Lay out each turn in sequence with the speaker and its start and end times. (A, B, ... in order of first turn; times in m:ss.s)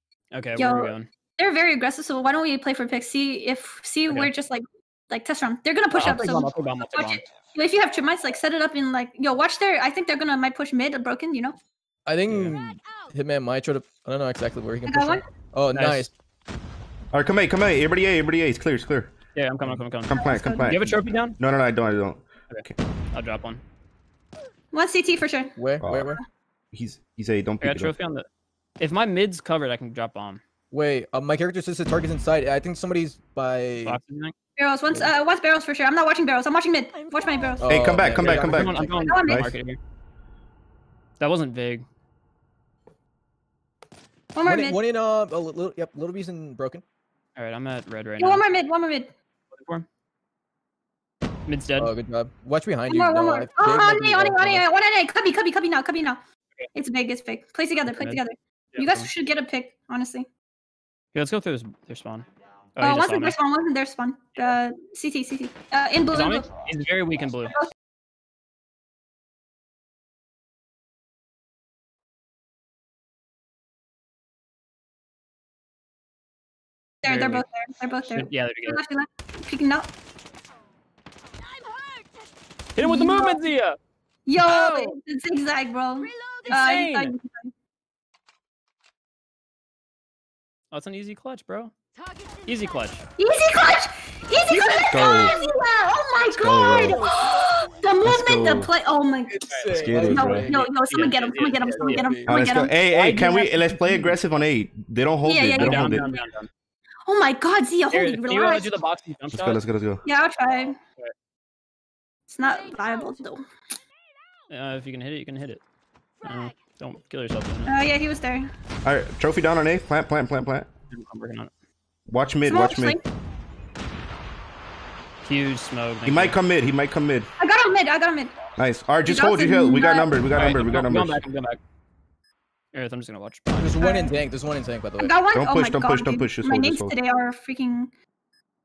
0:00.3-0:01.1 A
0:00.6-0:11.6 B
0:05.9-0:07.2 A
0:12.1-0:16.1 C
0:12.3-0:12.6 A
0:14.9-0:15.2 B
0:15.7-0:16.1 A
0:17.1-0:19.1 D
0:19.4-0:21.4 A
0:20.1-0:22.7 D
0:20.2-0:20.8 B
0:22.5-0:23.6 A
0:24.7-0:26.2 B
0:25.6-0:26.2 C
0:25.8-0:26.1 D
0:26.7-0:27.9 D
0:27.6-0:28.3 A
0:28.8-0:30.4 A
0:30.7-0:34.0 C
0:33.8-0:34.3 A
0:34.6-0:37.7 B
0:37.6-0:39.3 C
0:37.7-0:39.5 D
0:38.1-0:39.8 A
0:39.0-0:39.4 B
0:41.2-0:41.8 A
0:44.4-0:44.8 B
0:44.4-0:46.8 C
0:47.4-0:48.5 A
0:48.2-0:49.1 B
0:49.5-0:49.9 A
0:51.5-0:51.9 A
0:51.8-0:54.7 C
0:52.9-0:56.2 B
0:56.7-1:00.3 B
0:57.9-0:58.2 A
0:58.7-0:59.1 A
1:01.1-1:03.4 A
1:02.8-1:06.5 B
1:06.1-1:07.6 A
1:17.0-1:19.9 B
1:17.0-1:17.5 A
1:18.1-1:18.8 A
1:22.8-1:23.8 A
1:22.8-1:23.4 B
1:24.3-1:27.5 B
1:24.4-1:25.0 A
1:26.4-1:27.1 A
1:30.7-1:31.7 A
1:32.4-1:33.0 A
1:33.2-1:42.7 B
1:34.9-1:35.4 D
1:36.3-1:37.1 D
1:38.0-1:38.7 D
1:39.3-1:41.2 C
1:39.5-1:39.9 A
1:39.7-1:40.5 D
1:40.5-1:42.0 A
1:41.7-1:42.3 C
1:42.3-1:46.1 D
1:42.9-1:44.2 A
1:45.2-1:46.0 B
1:45.5-1:46.5 A
1:47.0-1:48.8 B
1:47.9-1:49.6 A
1:49.3-1:50.0 D
1:50.0-1:50.8 B
1:52.3-1:53.4 B
1:54.5-1:55.6 A
1:56.2-1:57.7 A
1:57.7-1:58.5 B
1:58.8-2:00.7 D
2:00.9-2:01.5 A
2:02.1-2:03.0 D
2:02.4-2:03.0 B
2:05.2-2:06.4 A
2:06.0-2:07.3 D
2:07.4-2:08.3 B
2:08.6-2:11.2 D
2:09.1-2:10.2 B
2:10.3-2:11.6 A
2:12.7-2:13.8 A
2:13.6-2:15.2 C
2:13.8-2:14.2 B
2:15.0-2:17.9 B
2:15.3-2:17.0 D